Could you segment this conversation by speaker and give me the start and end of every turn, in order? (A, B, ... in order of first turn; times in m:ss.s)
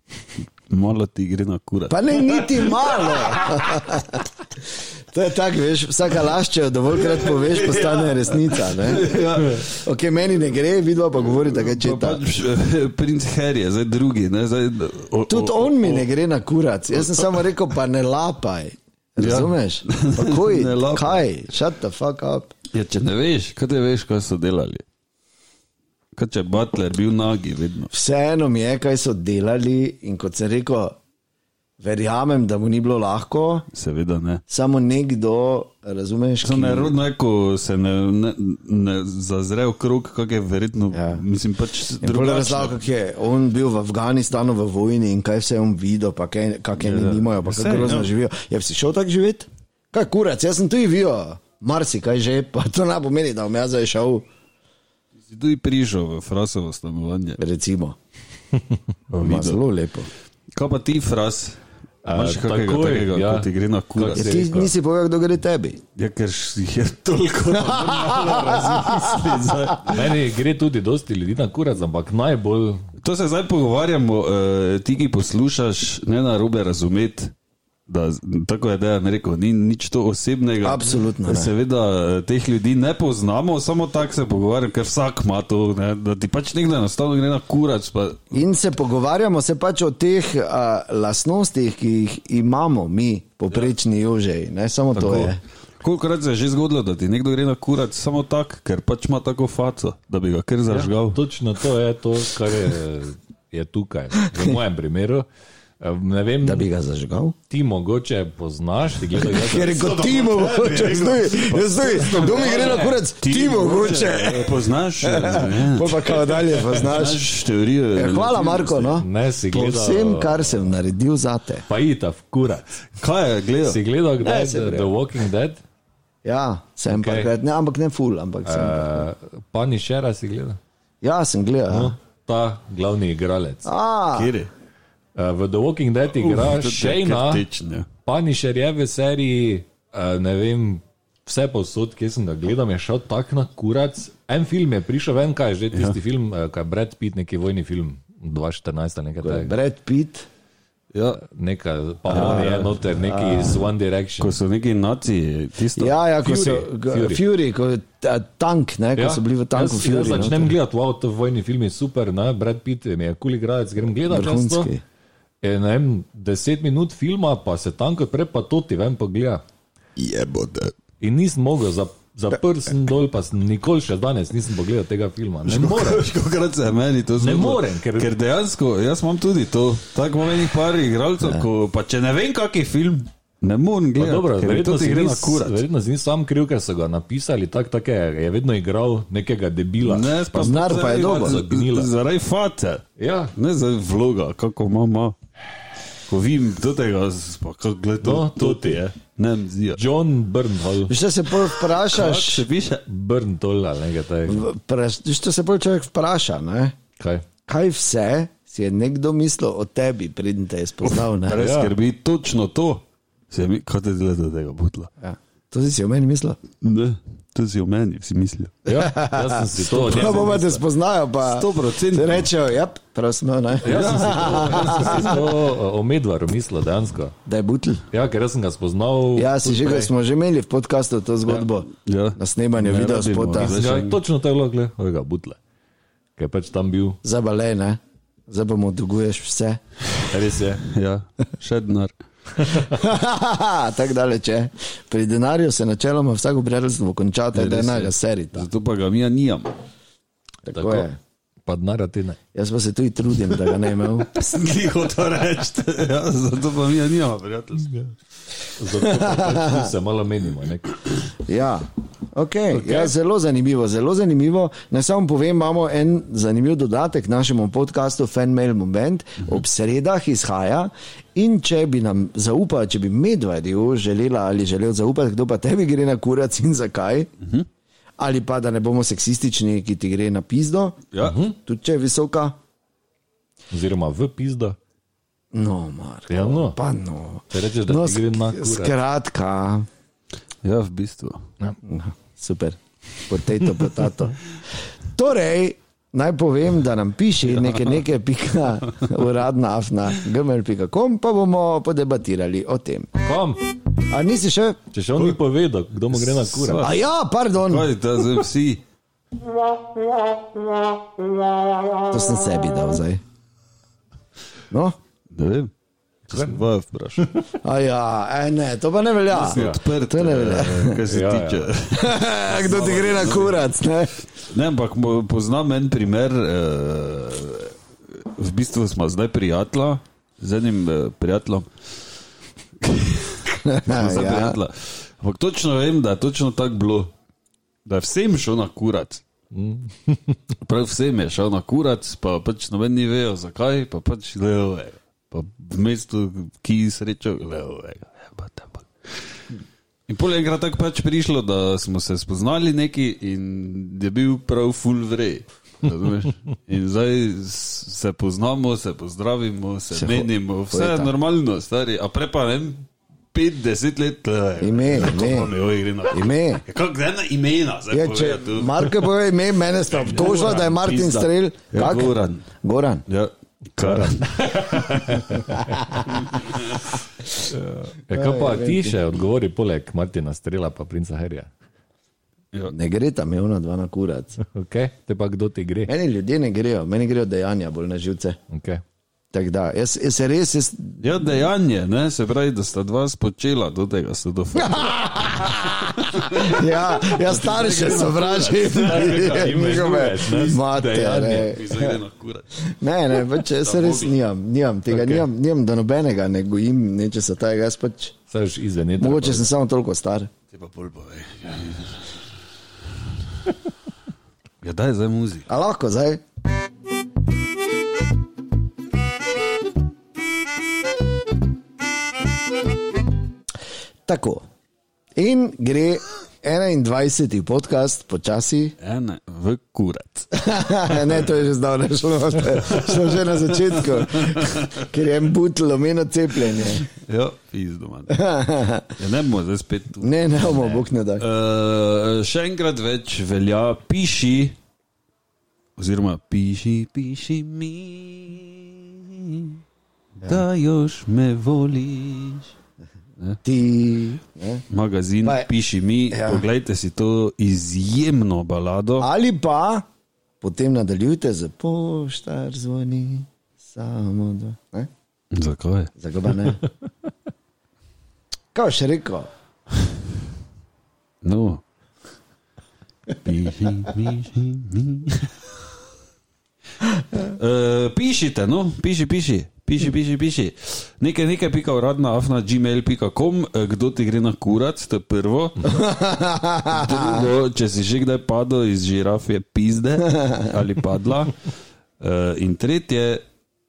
0:00.4-0:03.7 A
0:01.9-0:12.2 B
0:07.0-0:09.8 A
0:11.5-0:16.1 A
0:15.3-0:22.5 B
0:17.0-0:17.4 A
0:19.2-0:21.2 A
0:22.7-0:24.8 A
0:26.2-0:27.9 A
0:27.9-0:31.0 B
0:31.8-0:33.7 B
0:33.7-0:34.4 A
0:34.5-0:37.0 B
0:36.4-0:42.8 A
0:40.9-0:41.2 B
0:42.0-0:54.3 B
0:46.8-0:48.1 A
0:55.3-0:57.4 A
0:57.4-0:58.0 B
0:59.1-0:59.6 A
0:59.2-1:00.1 B
1:00.6-1:04.3 A
1:02.0-1:04.7 C
1:04.2-1:05.8 B
1:06.0-1:10.0 A
1:07.6-1:10.0 B
1:09.9-1:12.9 C
1:13.0-1:17.3 A
1:17.9-1:28.4 A
1:20.6-1:21.5 B
1:28.3-1:35.4 B
1:35.0-1:41.2 A
1:40.7-1:45.2 C
1:44.2-1:44.6 B
1:45.8-1:46.7 C
1:46.4-1:47.4 B
1:47.5-1:49.9 C
1:49.1-1:57.2 B
1:49.5-1:59.0 A
1:52.1-1:53.0 C
1:58.0-2:01.6 B
1:59.0-2:00.6 C
2:01.7-2:02.7 C
2:03.0-2:03.8 A
2:03.6-2:05.6 C
2:04.2-2:04.9 B
2:06.2-2:09.1 B
2:06.9-2:07.3 C
2:08.5-2:10.6 C
2:11.0-2:12.0 B
2:11.7-2:13.7 C
2:13.6-2:14.3 B
2:14.1-2:14.5 A
2:15.2-2:17.4 C
2:16.1-2:17.9 A
2:18.0-2:29.6 C
2:29.2-2:30.3 B
2:30.9-2:31.2 A
2:31.2-2:34.4 C
2:32.1-2:32.8 A
2:32.1-2:33.6 B
2:34.2-2:36.0 A
2:35.8-2:40.5 B
2:36.2-2:37.2 C
2:39.0-2:44.7 C
2:44.1-2:44.8 B
2:45.4-2:49.4 C
2:50.0-2:50.8 A
2:51.0-2:56.0 C
2:55.5-3:05.6 A
2:57.2-2:58.1 C
3:04.0-3:11.9 C
3:09.8-3:15.2 A
3:10.4-3:11.4 B
3:13.0-3:13.3 C
3:16.1-3:19.8 A
3:18.0-3:18.8 C
3:19.8-3:21.0 C
3:20.9-3:22.4 B
3:21.5-3:22.8 A
3:22.9-3:24.4 C
3:24.3-3:26.8 B
3:27.0-3:27.2 C
3:27.5-3:31.5 B
3:30.8-3:34.9 A
3:31.4-3:31.7 C
3:35.0-3:36.4 B
3:36.6-3:38.6 A
3:38.7-3:40.6 C
3:38.7-3:45.2 B
3:41.2-3:42.3 A
3:43.6-3:45.2 A
3:43.6-3:47.2 C
3:47.3-3:47.9 B
3:47.9-3:49.9 C
3:49.2-3:53.6 B
3:51.8-3:54.0 A
3:53.4-3:55.4 C
3:56.2-3:57.0 C
3:57.0-3:59.6 B
4:00.1-4:00.6 C
4:00.6-4:01.9 A
4:02.5-4:08.5 B
4:07.3-4:09.6 A
4:10.5-4:11.0 B
4:10.5-4:10.9 C
4:11.5-4:12.2 C
4:12.3-4:14.1 B
4:14.0-4:17.7 A
4:18.6-4:20.8 C
4:18.7-4:19.7 B
4:21.2-4:37.1 B
4:22.6-4:22.9 C
4:37.2-4:37.5 A
4:38.0-4:40.8 B
4:40.9-4:41.2 A
4:41.0-4:41.4 C
4:41.4-4:42.4 B
4:43.5-4:44.6 C
4:45.3-4:49.7 B
4:46.1-4:46.6 C
4:47.3-4:48.8 C
4:50.4-4:51.2 A
4:51.6-4:54.2 B
4:54.9-5:02.9 B
5:03.0-5:03.4 C
5:03.8-5:04.6 B
5:04.7-5:06.7 C
5:05.9-5:08.6 A
5:06.6-5:07.7 B
5:11.9-5:13.0 B
5:14.5-5:14.8 B
5:15.1-5:15.5 A
5:16.1-5:17.1 A
5:16.1-5:16.4 C
5:17.4-5:20.8 B
5:19.1-5:23.5 A
5:19.3-5:19.6 C
5:20.9-5:21.5 C
5:21.7-5:23.9 B
5:24.2-5:31.5 A
5:32.6-5:36.9 A
5:33.3-5:34.4 B
5:37.7-5:39.0 A
5:39.3-5:40.2 C
5:40.4-5:49.0 A
5:49.9-6:08.8 A
5:59.7-6:00.9 B
6:04.4-6:05.3 B
6:05.9-6:06.4 B
6:07.7-6:12.8 B
6:09.7-6:12.3 A
6:12.9-6:14.8 A
6:13.6-6:15.6 C
6:15.2-6:16.0 B
6:15.9-6:16.7 A
6:17.3-6:21.3 C
6:17.9-6:18.8 B
6:22.5-6:24.2 B
6:24.2-6:25.7 C
6:25.7-6:28.2 B
6:28.3-6:28.6 C
6:29.1-6:30.8 B
6:30.8-6:39.4 A
6:34.4-6:41.8 B
6:38.5-6:41.4 C
6:41.1-6:42.3 A
6:42.4-6:48.0 B
6:43.4-6:44.0 A
6:44.7-6:45.0 C
6:48.1-6:49.3 C
6:48.8-6:50.1 B
6:50.3-6:52.0 A
6:54.4-6:55.3 A
6:55.3-6:56.0 B
7:03.9-7:04.2 B
7:05.0-7:08.6 B
7:08.6-7:10.1 A
7:10.1-7:16.7 B
7:12.5-7:14.7 A
7:16.7-7:18.0 A
7:17.9-7:18.8 B
7:18.8-7:24.4 A
7:19.8-7:21.0 B
7:25.6-7:29.4 A
7:30.0-7:32.3 A
7:33.2-7:34.4 B
7:34.5-7:38.9 A
7:35.0-7:35.3 B
7:35.9-7:36.3 B
7:38.8-7:39.7 B
7:40.2-7:44.7 B
7:45.1-7:45.7 A
7:45.8-7:46.4 B
7:48.3-7:49.1 B
7:51.0-7:51.4 A
7:53.0-7:55.2 A
7:57.0-8:05.6 A
8:05.4-8:07.0 B
8:06.5-8:11.2 A
8:11.8-8:13.0 A